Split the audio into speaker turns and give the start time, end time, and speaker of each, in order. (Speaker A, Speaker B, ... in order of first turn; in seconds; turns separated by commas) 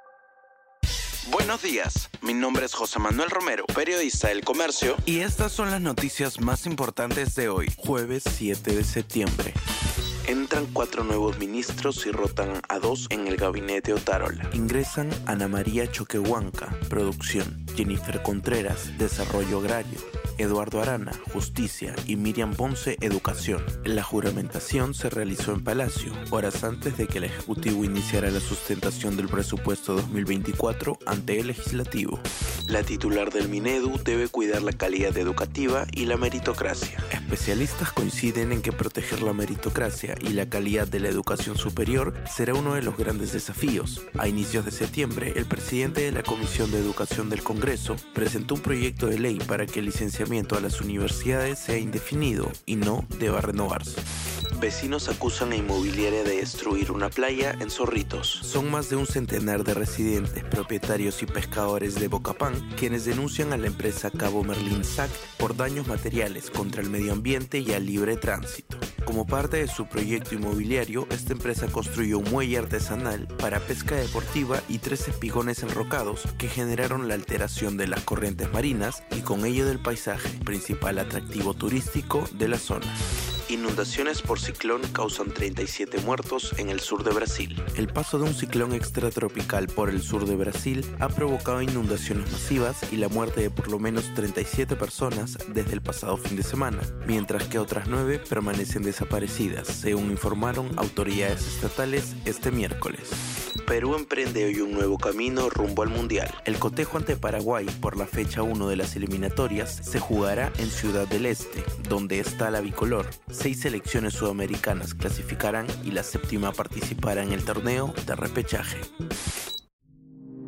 Speaker A: 1.3-9.6, Speaker A: 10.2-54.0, Speaker A: 54.5-118.9